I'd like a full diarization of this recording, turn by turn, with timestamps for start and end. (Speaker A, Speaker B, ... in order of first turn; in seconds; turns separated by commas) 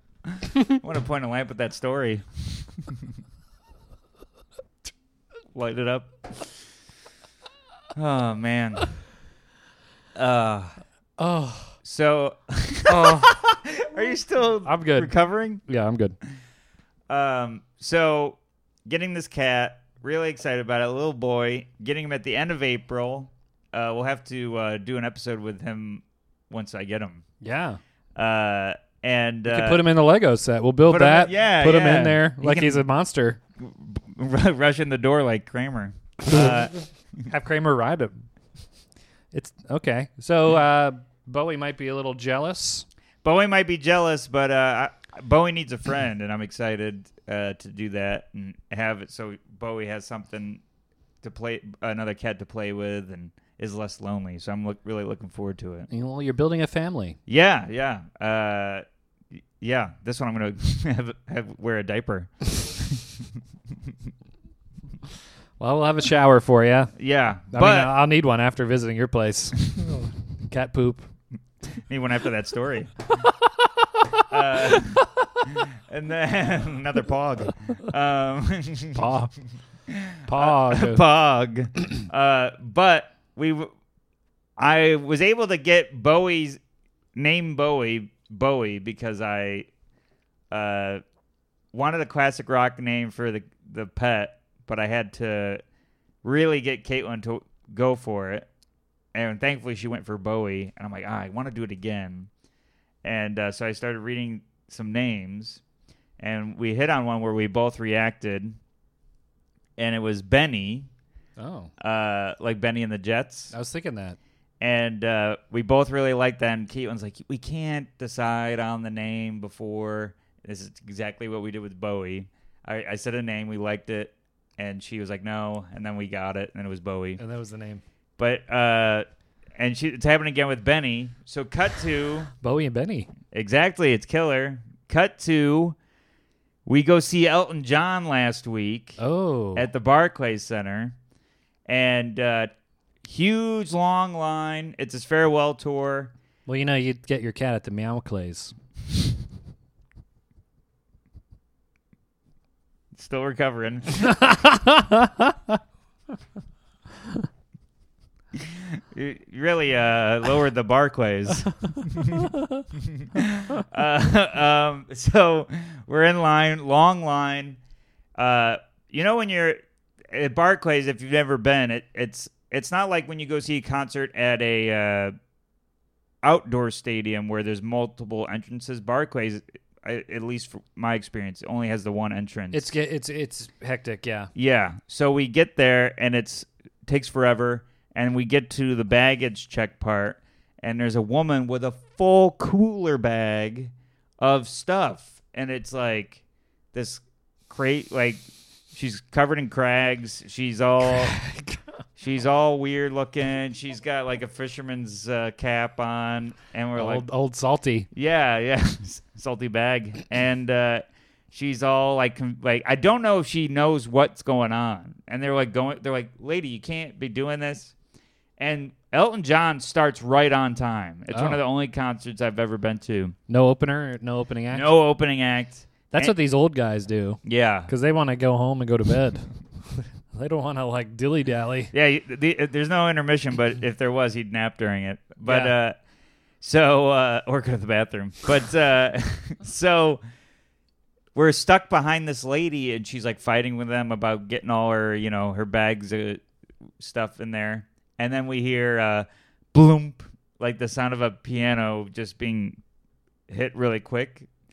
Speaker A: 0.8-3.1, Speaker A: 5.5-6.2, Speaker A: 7.9-8.8, Speaker A: 10.1-10.8, Speaker B: 11.2-11.8, Speaker A: 11.8-15.6, Speaker B: 12.9-13.4, Speaker B: 14.6-16.2, Speaker A: 17.1-27.2, Speaker B: 27.4-27.8, Speaker A: 28.1-29.9, Speaker B: 29.5-33.4, Speaker A: 30.9-32.8, Speaker A: 33.6-36.7, Speaker B: 36.3-36.5, Speaker B: 37.3-38.1, Speaker B: 39.3-42.9, Speaker A: 43.2-50.6, Speaker A: 51.2-55.9, Speaker B: 55.9-57.2, Speaker A: 57.3-58.8, Speaker A: 59.6-63.1, Speaker B: 65.6-66.9, Speaker A: 67.0-67.9, Speaker B: 67.5-71.0, Speaker A: 71.8-72.9, Speaker A: 74.3-79.1, Speaker B: 78.9-79.3, Speaker A: 79.9-83.7, Speaker B: 80.2-81.0, Speaker A: 84.6-86.6, Speaker A: 87.1-89.7, Speaker A: 90.5-91.0, Speaker A: 91.7-95.6, Speaker A: 96.2-98.5, Speaker A: 99.1-102.3, Speaker A: 103.0-105.6, Speaker A: 106.2-108.6, Speaker A: 109.8-110.9, Speaker B: 111.4-111.7, Speaker A: 111.8-113.5, Speaker B: 113.5-114.2, Speaker A: 114.6-127.2, Speaker B: 127.2-127.8, Speaker A: 128.2-132.3, Speaker B: 132.4-133.1, Speaker A: 133.3-135.8, Speaker A: 136.7-139.0, Speaker B: 139.0-139.7, Speaker A: 139.5-140.9, Speaker A: 141.7-142.5, Speaker A: 143.0-146.1, Speaker B: 146.5-148.5, Speaker A: 152.9-154.2, Speaker B: 154.0-155.5, Speaker A: 158.3-167.6, Speaker A: 168.2-175.1, Speaker A: 176.2-182.7, Speaker B: 182.5-184.3, Speaker A: 184.3-196.2, Speaker A: 196.7-198.2, Speaker A: 198.7-201.2, Speaker B: 201.0-201.6, Speaker A: 202.0-207.0, Speaker B: 206.8-207.9, Speaker A: 207.9-217.7, Speaker A: 218.4-223.1, Speaker B: 221.1-221.4, Speaker B: 223.3-224.7, Speaker A: 224.5-226.1, Speaker B: 225.9-231.7, Speaker A: 227.2-227.7, Speaker A: 231.7-235.8, Speaker B: 235.2-235.5, Speaker A: 236.4-240.0, Speaker A: 241.1-246.2, Speaker A: 246.8-252.6, Speaker A: 253.3-254.3